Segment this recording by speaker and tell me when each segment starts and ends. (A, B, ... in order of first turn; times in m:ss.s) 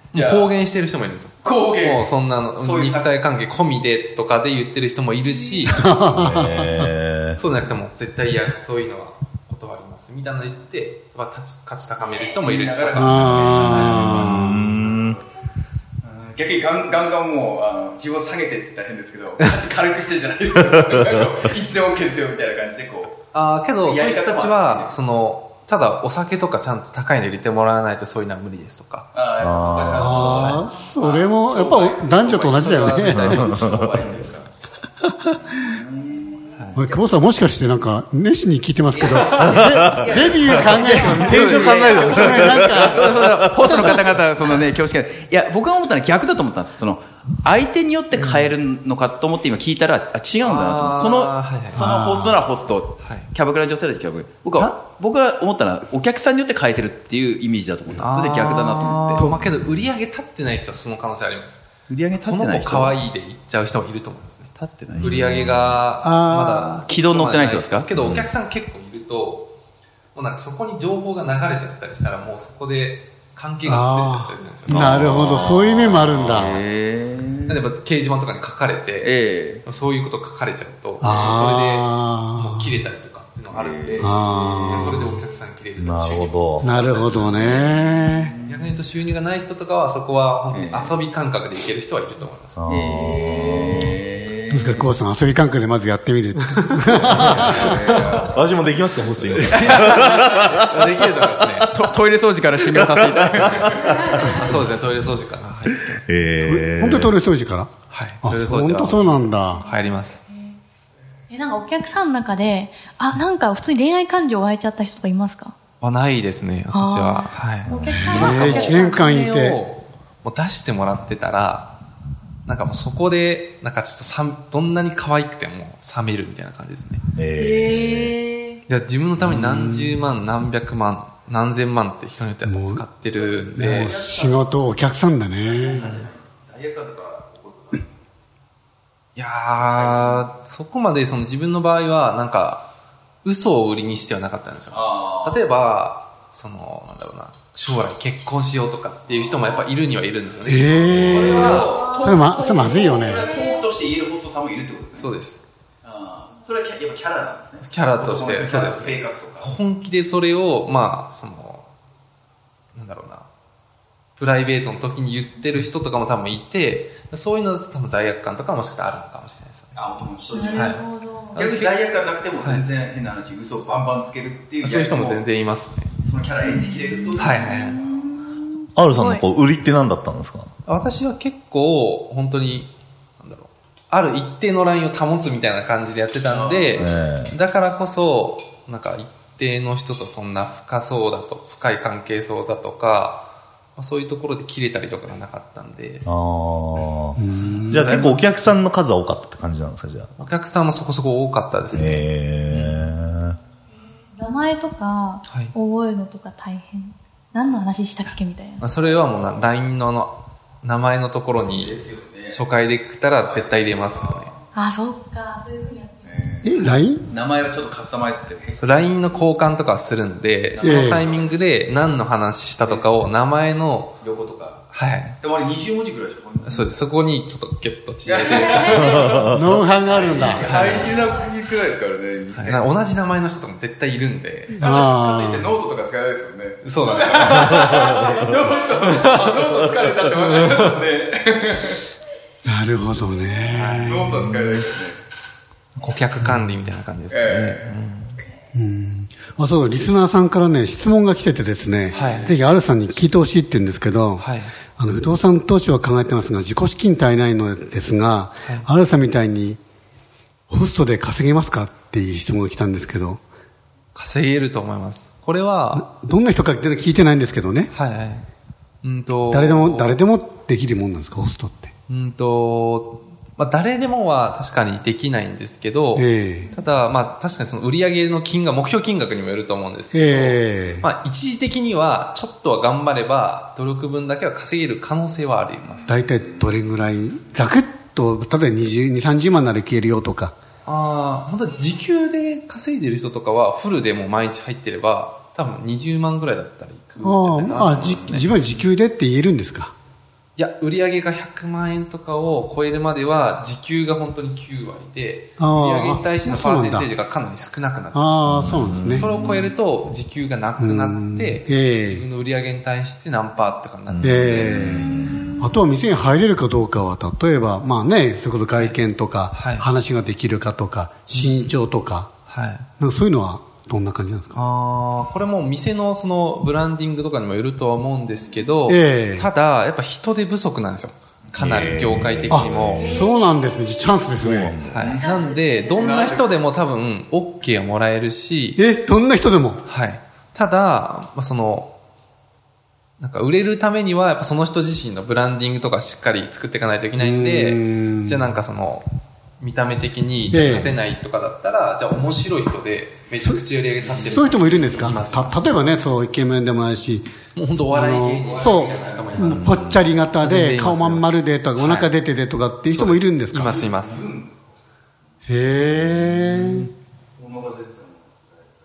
0:00.1-0:06.3 A
0:00.1-0:00.6 B
0:01.4-0:03.1 B
0:05.7-0:06.9 C
0:06.2-0:07.4 D
0:07.4-0:14.4 A
0:12.0-0:15.2 B
0:12.9-0:14.6 C
0:13.9-0:15.2 D
0:16.0-0:23.2 B
0:23.3-0:29.1 A
0:23.8-0:25.0 B
0:29.1-0:34.5 B
0:29.4-0:30.2 D
0:29.9-0:30.6 A
0:29.9-0:33.6 C
0:32.5-0:34.0 A
0:35.5-0:37.2 B
0:36.8-0:43.2 C
0:38.9-0:59.3 B
0:41.3-0:43.3 D
0:48.2-0:48.5 A
0:50.4-0:51.9 A
0:51.7-0:52.4 C
0:53.0-0:53.3 A
0:57.9-1:01.6 A
0:59.2-0:59.4 C
1:01.9-1:03.0 B
1:02.1-1:09.5 A
1:04.6-1:05.1 B
1:05.2-1:05.6 D
1:06.0-1:06.8 C
1:06.9-1:07.9 B
1:10.1-1:15.3 A
1:13.6-1:16.6 C
1:14.7-1:16.4 D
1:15.2-1:17.6 B
1:17.5-1:27.6 A
1:19.0-1:19.6 B
1:21.0-1:22.7 C
1:23.5-1:25.2 B
1:24.0-1:25.1 C
1:25.8-1:26.7 D
1:26.6-1:28.3 C
1:27.3-1:28.8 B
1:28.5-1:32.6 A
1:30.5-1:31.0 B
1:32.6-1:33.7 D
1:32.7-1:34.9 B
1:34.5-1:38.1 C
1:36.9-1:38.5 B
1:37.0-1:38.2 A
1:38.3-1:40.2 D
1:39.3-1:41.7 A
1:39.4-1:40.7 B
1:41.6-1:44.4 B
1:43.4-1:46.2 A
1:46.1-1:47.1 D
1:46.4-1:49.6 C
1:47.9-1:50.2 A
1:49.4-1:50.6 E
1:51.3-1:55.5 E
1:55.8-2:01.8 A
1:56.7-1:59.0 E
1:57.9-1:59.6 C
2:02.4-2:07.0 A
2:07.2-2:08.1 D
2:07.3-2:08.6 E
2:08.7-2:13.9 A
2:09.2-2:10.0 C
2:12.4-2:12.8 C
2:13.1-2:14.7 B
2:13.5-2:15.9 C
2:15.4-2:17.8 B
2:15.7-2:16.0 A
2:19.2-2:22.7 A
2:19.6-2:20.3 B
2:23.2-2:31.8 A
2:24.7-2:25.4 B
2:30.4-2:33.3 C
2:31.0-2:35.1 B
2:32.0-2:33.4 E
2:35.0-2:35.4 A
2:35.8-2:39.5 B
2:37.6-2:41.7 A
2:42.7-2:43.3 A
2:44.2-2:49.8 A
2:49.7-2:50.8 B
2:50.3-2:51.4 E
2:50.5-2:50.8 A
2:51.3-2:51.8 A
2:51.4-2:55.2 B
2:52.4-2:52.7 A
2:54.6-2:55.9 A
2:56.0-2:58.3 B
2:56.4-2:59.3 E
2:57.2-2:57.8 A
2:58.8-3:00.5 D
3:00.6-3:16.0 A
3:06.3-3:07.0 B
3:06.8-3:07.3 D
3:16.0-3:17.2 D
3:17.2-3:18.0 C
3:17.4-3:18.3 A
3:17.7-3:20.1 D
3:20.2-3:22.8 A
3:21.7-3:23.4 D
3:24.1-3:28.6 E
3:25.3-3:25.5 A
3:28.6-3:31.8 A
3:28.8-3:29.4 B
3:31.4-3:32.4 B
3:32.3-3:34.3 A
3:33.2-3:34.4 B
3:34.5-3:36.2 E
3:36.0-3:39.3 B
3:36.4-3:37.1 C
3:38.6-3:44.0 A
3:40.5-3:41.6 B
3:40.6-3:41.0 C
3:42.6-3:43.1 B
3:44.0-3:44.7 B
3:44.7-3:45.2 A
3:45.2-3:46.8 B
3:46.4-3:49.1 A
3:48.0-3:49.1 B
3:48.8-3:49.2 E
3:49.2-3:50.5 C
3:49.9-3:52.7 B
3:50.2-3:50.9 A
3:52.3-3:54.6 A
3:54.5-3:55.5 C
3:54.6-4:01.8 B
3:56.6-3:58.2 A
3:58.8-3:59.4 A
4:00.2-4:00.7 A
4:02.4-4:04.5 C
4:03.5-4:04.2 A
4:03.8-4:05.0 B
4:05.8-4:08.2 A
4:07.1-4:07.8 B
4:08.5-4:14.2 C
4:11.9-4:12.4 A
4:11.9-4:12.3 B
4:14.2-4:14.5 A
4:14.8-4:19.6 C
4:20.5-4:23.2 C
4:23.9-4:25.9 A
4:25.7-4:27.7 C
4:27.7-4:28.3 A
4:28.8-4:30.0 A
4:29.3-4:31.7 C
4:31.9-4:46.0 A
4:35.9-4:36.5 C
4:39.9-4:40.9 C
4:45.8-4:50.3 C
4:50.6-4:58.7 A
4:57.0-4:59.7 C
5:00.4-5:14.8 A
5:05.4-5:06.9 C
5:07.9-5:09.1 C
5:08.3-5:09.1 D
5:10.6-5:12.1 C
5:13.9-5:15.1 D
5:14.0-5:22.1 C
5:19.3-5:19.7 A
5:21.1-5:21.5 A
5:22.3-5:22.7 A
5:22.8-5:24.4 C
5:24.3-5:33.0 A
5:28.7-5:29.3 C
5:31.5-5:33.0 D
5:32.3-5:34.6 C
5:34.2-5:34.8 D
5:34.7-5:38.6 A
5:34.7-5:35.1 B
5:35.8-5:36.3 B
5:38.6-5:39.6 C
5:39.6-5:41.7 A
5:43.0-5:48.9 A
5:47.0-5:48.3 C
5:49.4-5:55.5 A
5:50.3-5:50.8 C
5:53.9-5:57.1 C
5:57.3-5:59.5 A
5:57.7-6:03.6 C
5:58.3-5:59.3 B
5:59.3-5:59.8 D
6:00.2-6:01.9 A
6:02.7-6:04.1 A
6:03.6-6:04.4 B
6:05.3-6:06.7 C
6:07.2-6:08.2 B